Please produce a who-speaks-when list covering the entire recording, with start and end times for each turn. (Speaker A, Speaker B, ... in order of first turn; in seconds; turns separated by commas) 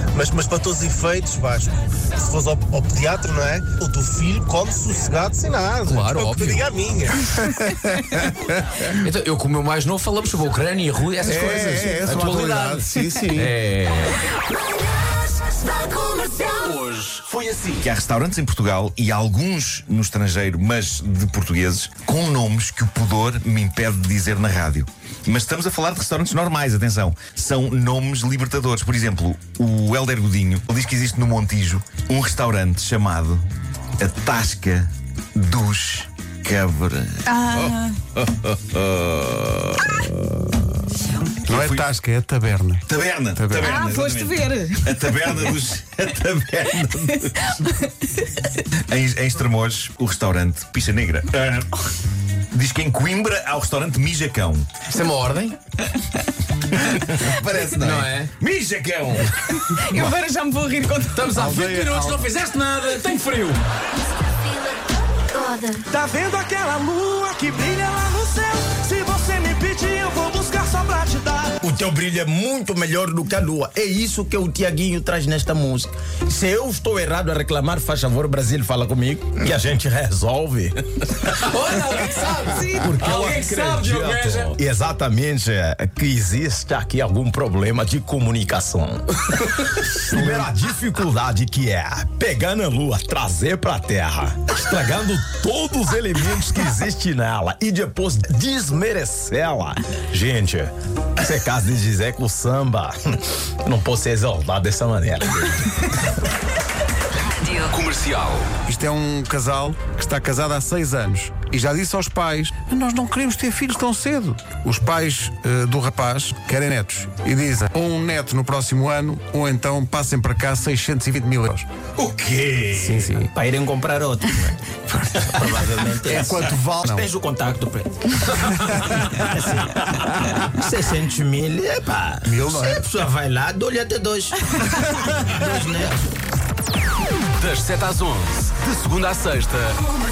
Speaker A: 0.1-7.3, Speaker B: 5.7-6.7, Speaker B: 9.0-14.2, Speaker C: 11.2-13.6, Speaker B: 15.6-17.9, Speaker D: 17.8-33.5, Speaker D: 34.0-39.9, Speaker E: 37.3-37.9, Speaker D: 41.4-41.9, Speaker C: 41.5-42.8, Speaker D: 42.9-47.5, Speaker C: 43.3-43.8, Speaker E: 43.6-45.2, Speaker D: 48.7-51.8, Speaker D: 52.5-54.7, Speaker B: 54.9-55.6, Speaker D: 57.0-59.3, Speaker B: 57.8-58.3, Speaker E: 59.6-61.4, Speaker B: 61.1-63.6, Speaker C: 61.3-62.2, Speaker F: 65.9-71.5, Speaker G: 71.6-105.9, Speaker B: 81.2-84.5, Speaker E: 82.5-83.1, Speaker B: 107.5-108.5, Speaker C: 108.6-121.7, Speaker D: 122.0-123.0, Speaker C: 122.8-123.3, Speaker G: 122.8-124.6, Speaker C: 124.9-127.1, Speaker G: 125.2-136.0, Speaker C: 132.2-132.9, Speaker B: 137.4-139.8